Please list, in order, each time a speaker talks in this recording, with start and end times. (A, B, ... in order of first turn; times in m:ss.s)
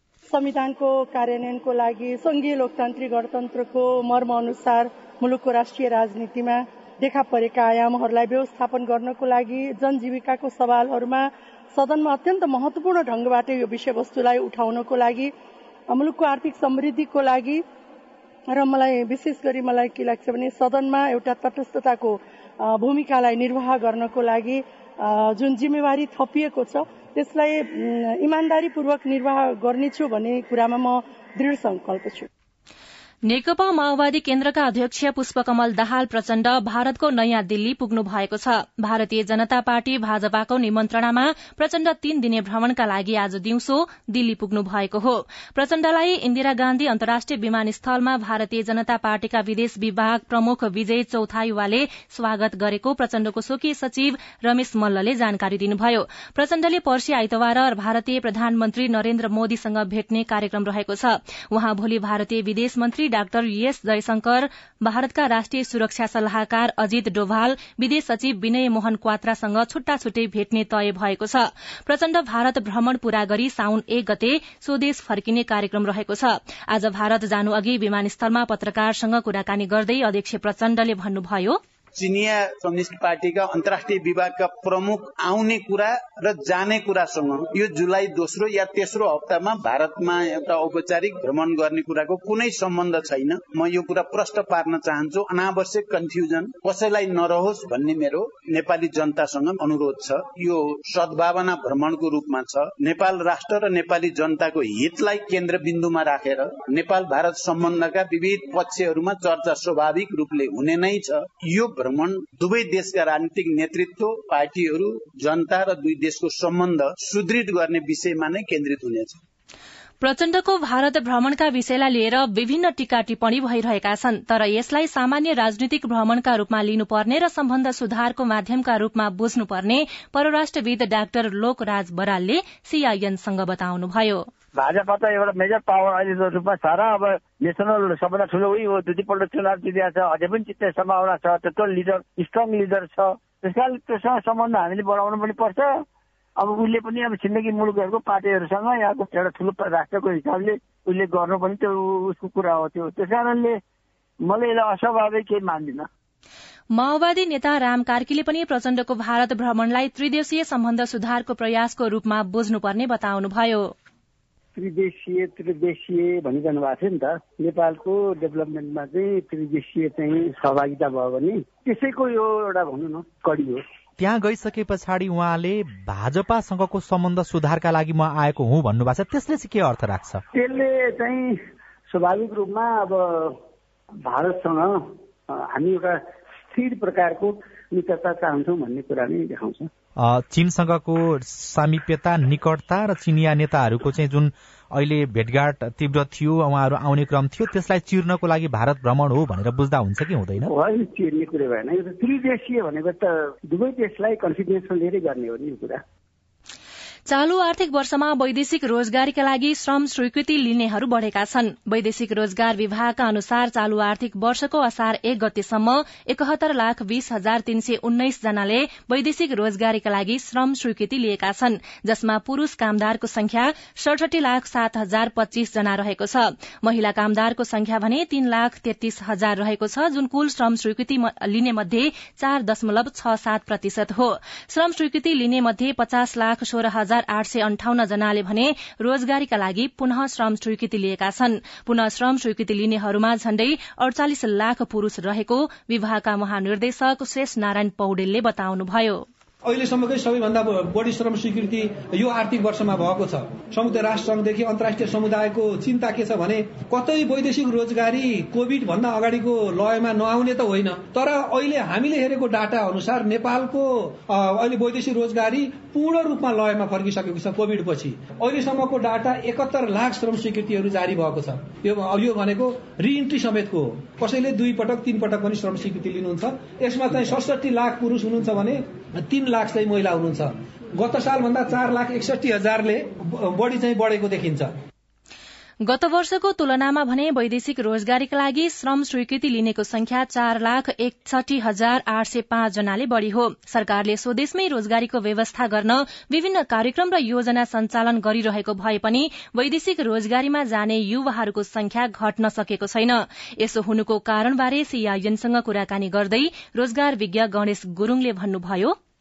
0:00.3-0:15.3 A
0:15.9-0:17.6 A
0:18.5-0:32.3 A
0:33.3-1:21.6 B
1:22.0-1:59.2 C
2:00.0-2:14.2 B
2:14.6-2:25.8 D
2:26.4-2:33.6 D
2:34.2-2:35.9 D
2:36.7-2:43.7 B
2:44.6-2:53.6 E
2:54.0-3:00.2 F
3:00.3-3:01.4 E
3:01.9-3:03.4 E
3:04.0-3:04.8 E
3:05.3-3:09.7 E
3:10.0-3:20.5 F
3:20.4-3:25.8 E
3:27.1-4:09.0 B
4:09.4-4:44.5 G
4:45.6-5:08.8 B